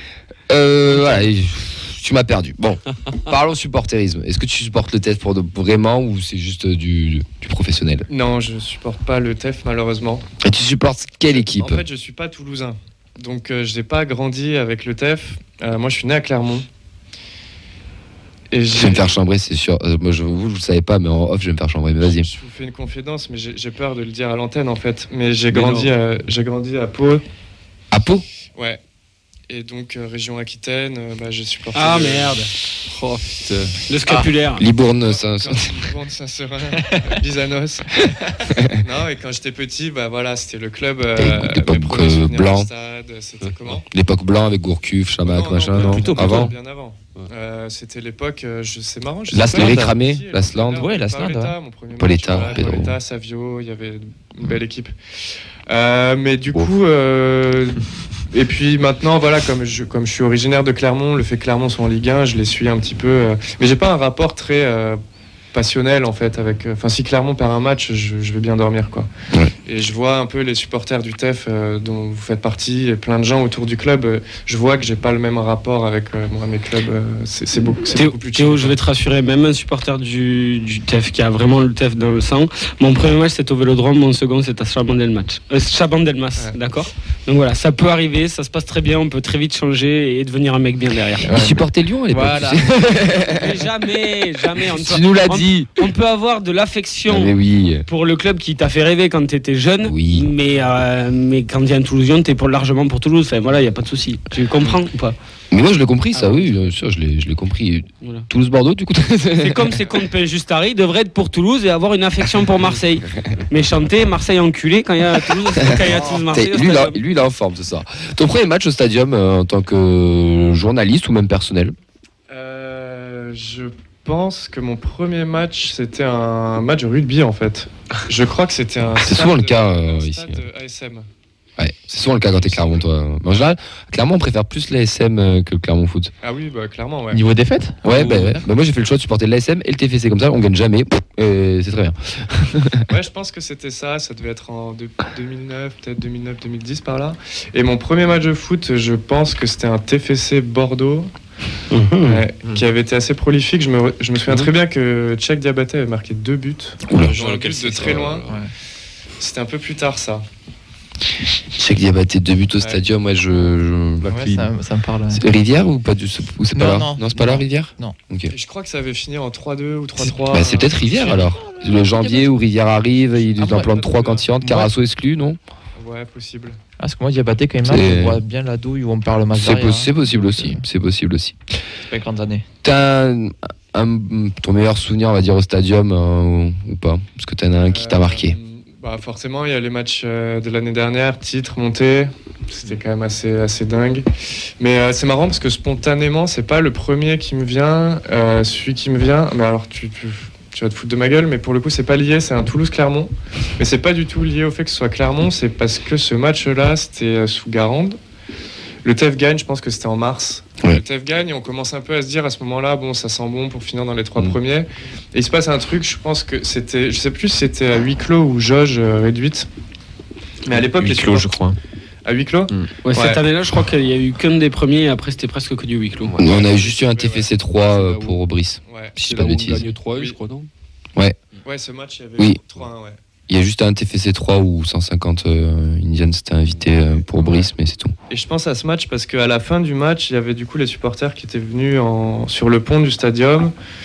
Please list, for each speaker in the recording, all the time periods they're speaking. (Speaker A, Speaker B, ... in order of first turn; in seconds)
Speaker A: 0.5-8.1, 10.4-11.8, 18.7-22.3, 27.9-28.2, 34.6-35.7, 41.1-42.7, 43.9-46.5, 49.3-51.2, 52.0-53.0, 91.3-93.7, 94.6-95.9, 97.1-97.9, 99.8-100.3, 105.5-109.8, 115.6-121.8, 129.0-130.4, 131.6-136.1, 137.8-142.8, 156.9-157.2, 161.5-164.1, 165.1-168.3, 170.3-175.4, 177.6-178.2, 179.3-181.4, 182.6-188.4, 220.5-221.6, 226.1-229.7, 233.3-237.9
Speaker B: 0.9-1.3, 8.1-10.2, 11.3-16.7, 18.5-19.2, 22.0-27.2, 28.6-28.8, 29.5-32.4, 35.0-38.2, 38.7-43.9, 45.2-54.9, 55.7-65.0, 65.5-69.1, 69.7-78.8, 122.3-131.1, 131.9-132.9, 136.2-137.2, 142.9-151.1, 152.0-158.3, 159.2-160.2, 168.3-171.3, 173.3-174.3, 175.8-176.6, 187.6-194.1, 194.6-208.0, 208.8-219.5, 220.4-221.5, 222.1-223.2, 226.2-227.3, 228.7-229.0, 229.9-230.2, 231.4-233.0, 236.8-237.5, 238.1-243.5
Speaker C: 25.6-25.9, 31.7-32.5, 33.9-34.7, 77.9-91.4, 93.1-105.2, 106.1-106.7, 109.4-117.0, 151.7-152.2, 222.8-226.2
Speaker D: 32.4-33.8, 43.4-43.8, 45.8-46.5, 137.9-138.4, 157.1-158.3, 164.0-164.6, 227.7-228.2, 229.0-230.5, 236.4-236.7
Speaker E: 45.8-46.5, 49.4-50.0, 50.8-51.5, 91.2-92.7, 137.1-138.4, 164.1-165.2, 166.6-167.9, 171.1-172.4, 174.4-174.7, 176.8-180.6, 181.9-182.4